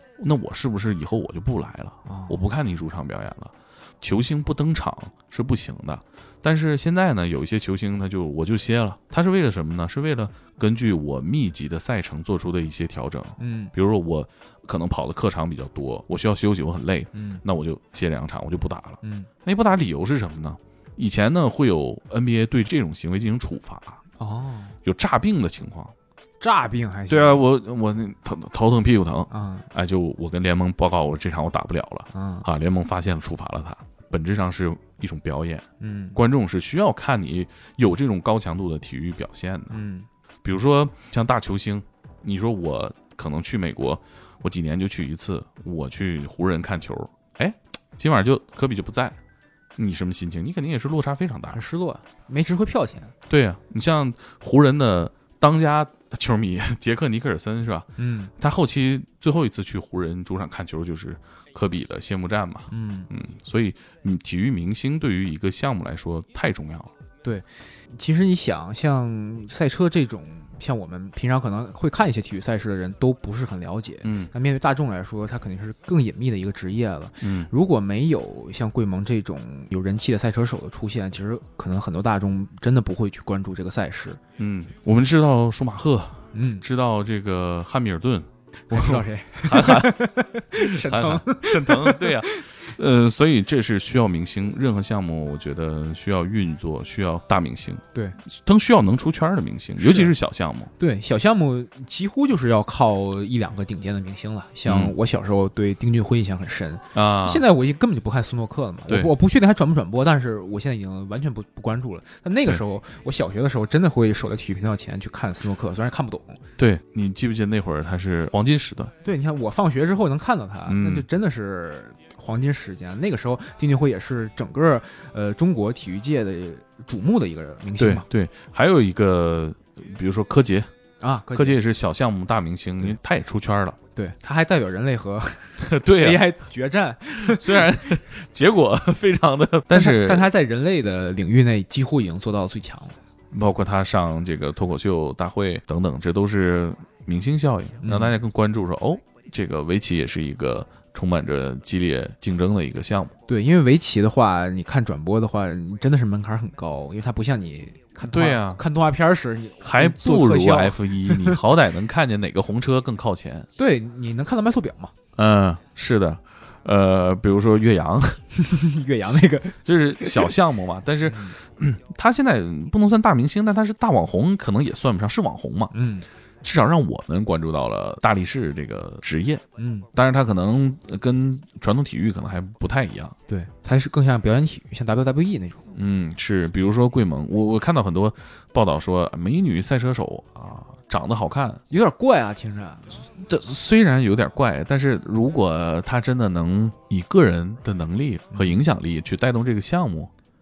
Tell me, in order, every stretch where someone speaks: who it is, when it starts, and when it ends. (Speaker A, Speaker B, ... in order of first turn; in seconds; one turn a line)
Speaker A: 0.2-24.0
Speaker B: 2.1-2.4
Speaker B: 13.4-13.7
Speaker B: 17.1-17.4
Speaker B: 19.0-19.3
Speaker B: 24.2-24.8
Speaker A: 24.9-25.9
Speaker B: 26.4-27.4
Speaker A: 27.1-39.8
Speaker B: 29.3-29.7
Speaker B: 32.1-32.5
Speaker B: 35.8-36.2
Speaker B: 39.7-40.1
Speaker A: 40.4-49.2
Speaker A: 49.8-51.6
Speaker B: 51.5-53.1
Speaker A: 53.3-57.9
Speaker B: 58.0-58.3
Speaker A: 58.4-66.9
Speaker B: 62.7-63.1
Speaker B: 67.2-84.2
Speaker A: 74.0-74.3
Speaker A: 77.2-77.5
Speaker A: 84.4-100.7
Speaker B: 86.3-86.7
Speaker B: 88.7-92.4
Speaker B: 99.8-100.1
Speaker B: 100.8-116.4
Speaker A: 104.7-105.0
Speaker A: 107.0-107.5
Speaker A: 108.9-109.1
Speaker A: 116.6-118.9
Speaker B: 119.0-128.1
Speaker A: 120.7-121.1
Speaker A: 127.8-130.7
Speaker B: 131.0-131.6
Speaker A: 131.3-133.8
Speaker B: 133.9-137.9
Speaker A: 135.6-136.3
Speaker A: 137.2-140.3
Speaker B: 139.7-143.0
Speaker A: 143.3-153.2
Speaker B: 147.8-148.1
Speaker B: 153.3-161.4
Speaker A: 158.1-158.6
Speaker A: 159.6-163.5
Speaker B: 163.6-164.9
Speaker A: 165.2-168.2
Speaker B: 168.4-170.3
Speaker A: 169.7-175.7
Speaker B: 171.1-171.4
Speaker B: 175.7-176.1
Speaker A: 176.4-179.4
Speaker B: 179.6-179.9
Speaker A: 179.9-183.2
Speaker B: 183.3-185.7
Speaker A: 185.7-191.6
Speaker B: 191.7-193.1
Speaker A: 193.2-200.1
Speaker B: 198.3-198.6